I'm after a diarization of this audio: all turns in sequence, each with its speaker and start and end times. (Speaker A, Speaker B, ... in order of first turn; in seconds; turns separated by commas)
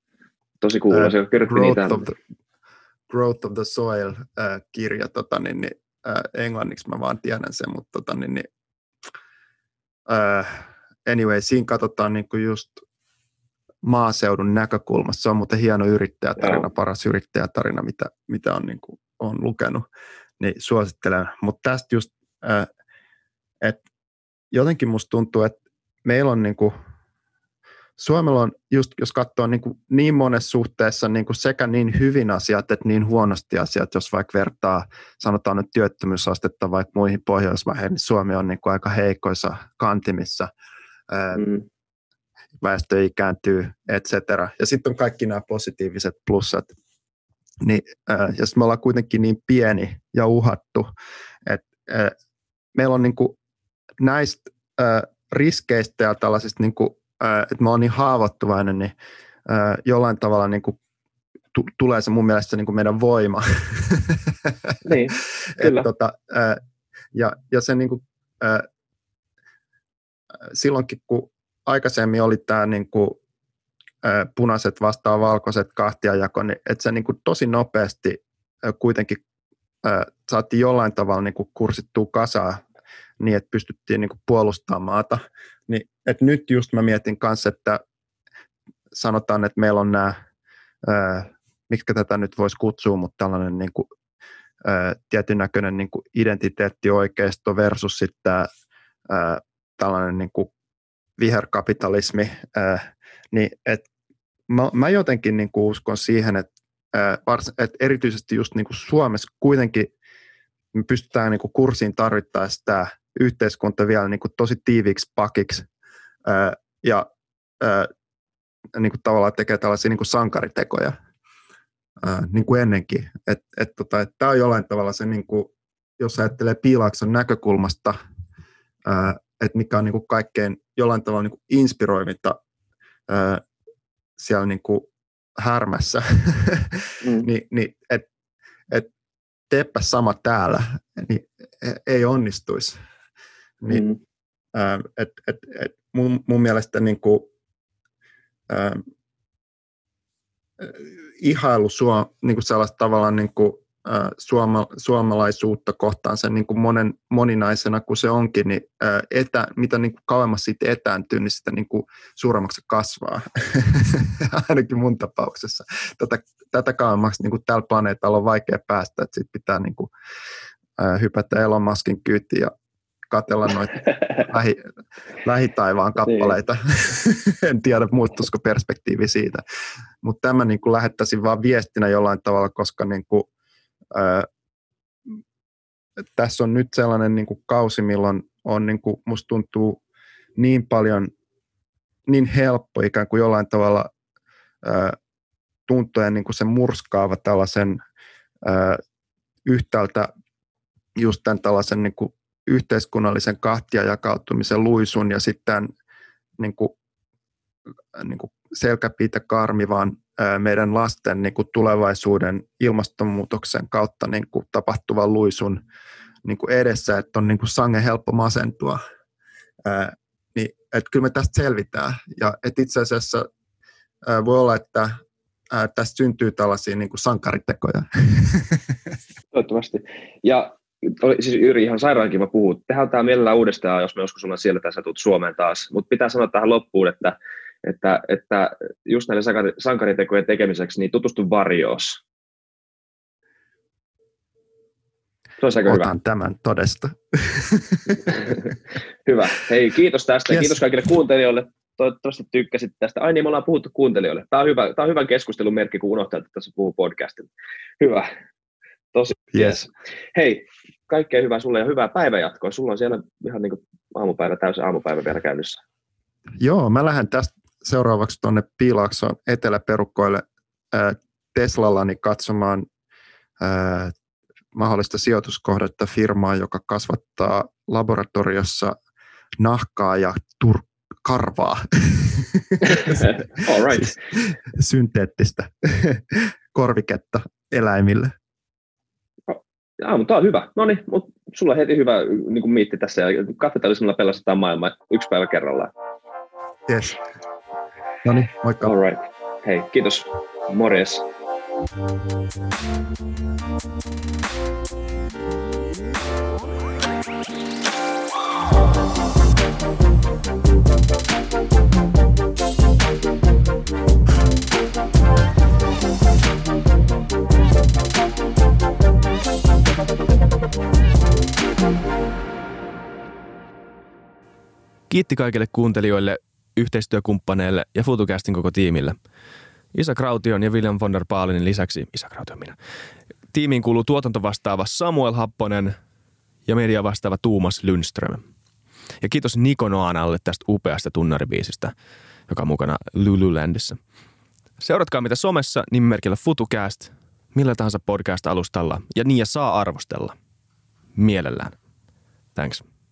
Speaker A: 0.6-2.1, Speaker B: 0.9-2.2, Speaker B: 3.1-8.5, Speaker B: 10.1-12.8, Speaker B: 13.8-19.8, Speaker B: 20.4-22.7, Speaker B: 24.5-26.7, Speaker B: 28.0-40.5, Speaker B: 41.1-41.5, Speaker A: 41.4-41.6, Speaker B: 42.6-46.7, Speaker B: 47.6-50.9, Speaker B: 51.5-52.1, Speaker B: 52.7-53.4, Speaker B: 54.0-58.9, Speaker B: 59.5-60.8, Speaker B: 61.5-64.5, Speaker A: 64.8-65.9, Speaker B: 65.5-66.6, Speaker B: 67.1-68.7, Speaker B: 70.5-73.2, Speaker B: 74.0-79.2, Speaker B: 79.8-82.6, Speaker B: 83.2-87.8, Speaker B: 88.9-90.2, Speaker B: 90.8-93.9, Speaker B: 94.6-98.5, Speaker B: 99.1-100.5, Speaker B: 101.2-103.9, Speaker B: 104.5-109.9, Speaker B: 110.7-115.7, Speaker B: 116.2-117.1, Speaker B: 117.6-117.9, Speaker B: 118.7-121.0, Speaker B: 122.0-128.0, Speaker B: 128.8-132.4, Speaker B: 133.1-133.4, Speaker B: 134.2-138.1, Speaker A: 137.0-137.3, Speaker B: 139.5-142.8, Speaker B: 143.6-143.9, Speaker A: 143.7-144.0, Speaker B: 144.5-147.2, Speaker B: 148.5-148.8, Speaker B: 150.6-169.9, Speaker B: 170.8-172.5, Speaker B: 173.1-174.6, Speaker B: 175.2-179.4, Speaker A: 176.0-176.3, Speaker B: 180.0-183.3, Speaker B: 183.9-184.3, Speaker B: 186.2-189.8, Speaker B: 190.3-191.1, Speaker B: 192.1-193.9, Speaker B: 194.6-194.9, Speaker B: 195.7-197.8, Speaker B: 198.4-198.8, Speaker B: 199.4-200.1, Speaker B: 200.9-205.7, Speaker B: 206.4-206.7, Speaker B: 207.9-215.6, Speaker B: 216.2-218.8, Speaker B: 219.6-223.3, Speaker B: 224.0-225.0, Speaker B: 225.5-228.6, Speaker A: 229.3-242.0, Speaker A: 245.4-245.9, Speaker B: 245.6-248.4, Speaker A: 248.1-248.4, Speaker A: 249.0-257.3, Speaker B: 250.3-250.6, Speaker A: 257.8-258.1, Speaker A: 258.9-265.6, Speaker B: 259.3-259.7, Speaker B: 266.4-272.6, Speaker B: 273.4-273.9, Speaker B: 274.5-278.7, Speaker B: 279.4-288.1, Speaker A: 282.6-283.9, Speaker A: 289.3-295.7, Speaker B: 296.7-297.0, Speaker B: 298.0-298.7, Speaker A: 298.6-301.0, Speaker C: 324.9-329.0, Speaker C: 329.7-332.6, Speaker C: 333.3-335.7, Speaker C: 336.4-338.2, Speaker C: 339.0-341.7, Speaker C: 342.3-343.8, Speaker C: 344.6-350.1, Speaker C: 350.9-351.5, Speaker C: 352.3-352.6